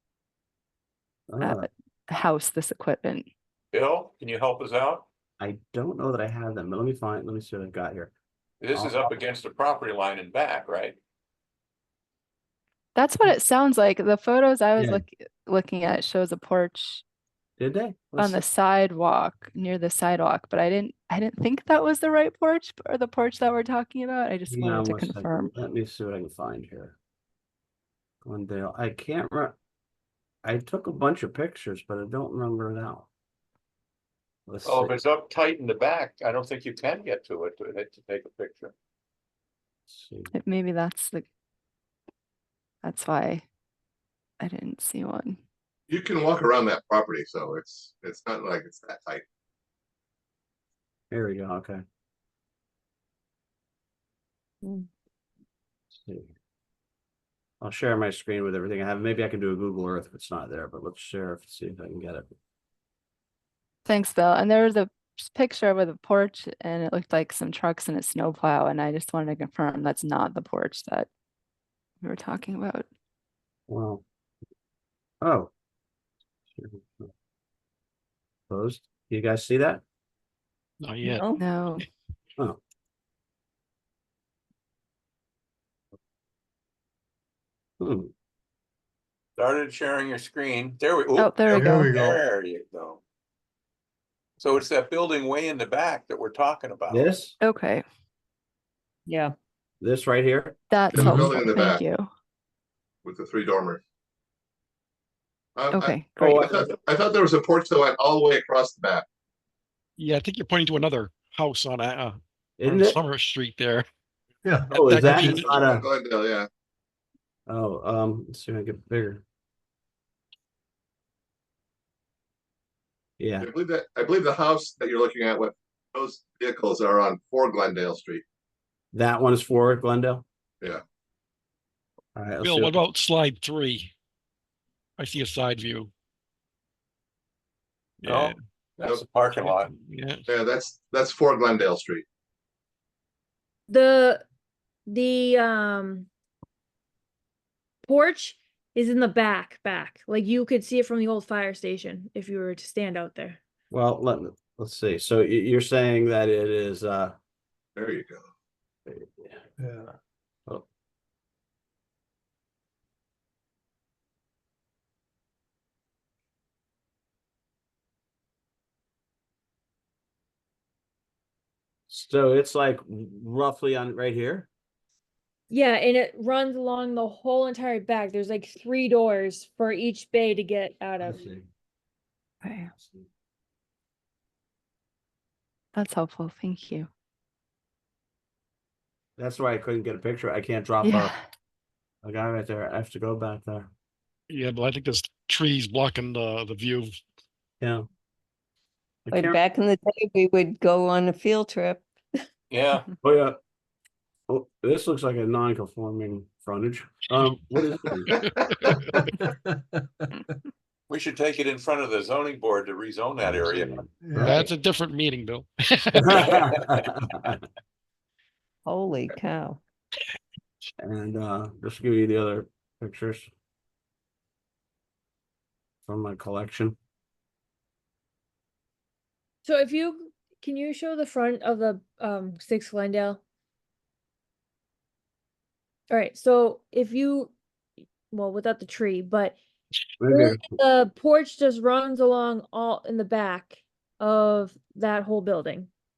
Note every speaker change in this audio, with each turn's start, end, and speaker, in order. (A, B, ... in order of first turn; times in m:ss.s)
0:01.3-0:01.7 A
0:01.4-0:03.3 B
0:03.7-0:05.0 C
0:05.4-0:08.1 A
0:08.6-0:11.0 C
0:08.7-0:09.2 A
0:12.9-0:17.0 B
0:14.8-0:15.0 A
0:17.6-0:18.4 A
0:18.2-0:25.5 B
0:24.5-0:27.0 A
0:28.2-0:29.6 A
0:30.4-0:33.1 A
0:34.5-0:35.0 A
0:34.6-0:38.7 C
0:39.9-0:40.3 A
0:40.3-0:41.3 B
0:42.8-0:43.4 B
0:44.4-0:45.4 B
0:45.9-0:49.2 D
0:51.1-0:51.8 A
0:55.9-0:56.3 A
0:57.6-1:02.3 A
1:03.8-1:11.1 B
1:12.0-1:12.9 B
1:13.7-1:14.0 A
1:15.2-1:15.5 A
1:16.5-1:17.1 A
1:18.5-1:19.8 A
1:20.8-1:21.2 E
1:21.1-1:21.4 F
1:21.4-1:21.8 B
1:27.8-1:28.1 A
1:29.4-1:33.0 C
1:31.2-1:31.9 B
1:31.5-1:32.2 G
1:34.4-1:37.1 C
1:36.9-1:37.3 A
1:37.4-1:37.8 B
1:39.8-1:40.6 A
1:40.7-1:42.1 B
1:40.9-1:41.8 D
1:43.0-1:43.8 D
1:45.6-1:49.0 D
1:45.7-1:46.6 B
1:46.2-1:46.6 A
1:50.0-1:53.8 E
1:52.6-1:53.0 A
1:54.4-1:55.3 G
1:54.7-1:55.5 E
1:54.7-1:55.8 A
1:55.2-1:56.5 D
1:57.5-1:59.2 A
2:03.2-2:03.5 A
2:03.4-2:08.2 D
2:08.9-2:10.2 A
2:12.1-2:12.7 A
2:12.4-2:13.9 E
2:15.0-2:15.9 E
2:18.0-2:18.4 E
2:18.0-2:19.7 C
2:18.8-2:19.0 D
2:19.3-2:20.2 E
2:20.3-2:22.0 D
2:23.7-2:24.2 H
2:24.8-2:26.1 H
2:27.8-2:33.4 H
2:33.7-2:37.1 A
2:37.8-2:38.3 D
2:38.9-2:39.4 A
2:39.6-2:39.9 G
2:51.9-2:54.5 A
2:55.5-3:01.3 H
3:01.0-3:01.5 A
3:02.4-3:02.7 B
3:02.8-3:03.0 A
3:05.7-3:06.9 B
3:09.2-3:11.1 A
3:12.0-3:13.7 A
3:14.3-3:17.0 E
3:17.6-3:17.8 A
3:19.1-3:19.4 A
3:19.1-3:21.8 F
3:22.5-3:22.9 C
3:23.0-3:23.4 A
3:24.3-3:28.2 A
3:30.0-3:30.4 G
3:30.9-3:33.7 C
3:33.3-3:34.5 A
3:34.0-3:34.5 G
3:34.2-3:36.4 E
3:36.0-3:37.4 A
3:38.7-3:39.6 F
3:40.8-3:43.3 A
3:45.8-3:46.8 A
3:49.4-3:53.2 H
3:55.9-3:57.3 H
3:58.1-3:59.4 H
4:00.0-4:00.4 A
4:00.0-4:05.7 H